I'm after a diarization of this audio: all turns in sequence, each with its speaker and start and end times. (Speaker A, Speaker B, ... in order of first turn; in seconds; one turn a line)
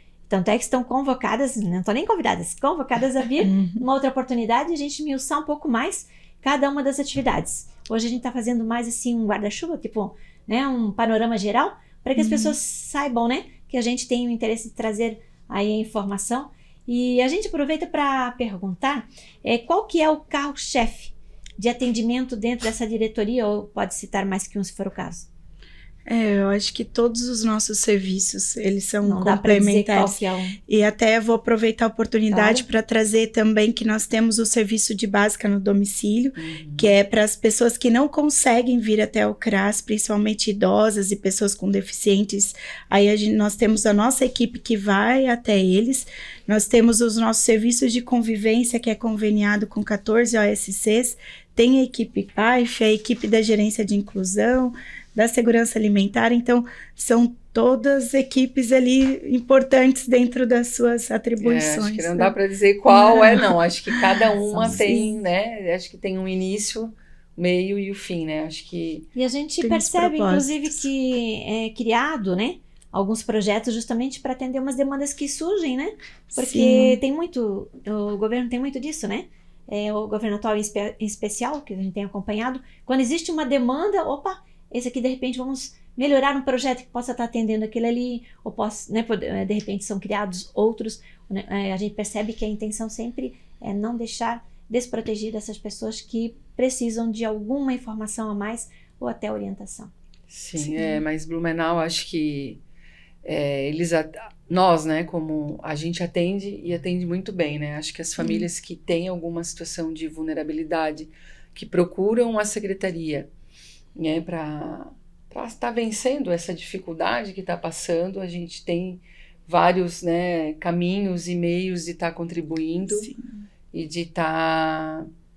Speaker A: 0.3-25.3
Speaker B: 3.4-3.8
Speaker B: 12.2-12.5
Speaker B: 26.1-62.3
Speaker A: 29.0-30.6
Speaker A: 32.3-32.6
Speaker C: 36.4-36.9
Speaker C: 61.4-69.1
Speaker B: 62.9-65.2
Speaker A: 64.5-64.8
Speaker A: 69.1-99.9
Speaker B: 69.6-70.8
Speaker B: 76.3-77.0
Speaker C: 100.3-102.6
Speaker B: 100.6-101.0
Speaker C: 103.2-113.3
Speaker B: 108.2-108.5
Speaker C: 114.0-123.1
Speaker B: 122.8-123.4
Speaker C: 123.7-125.1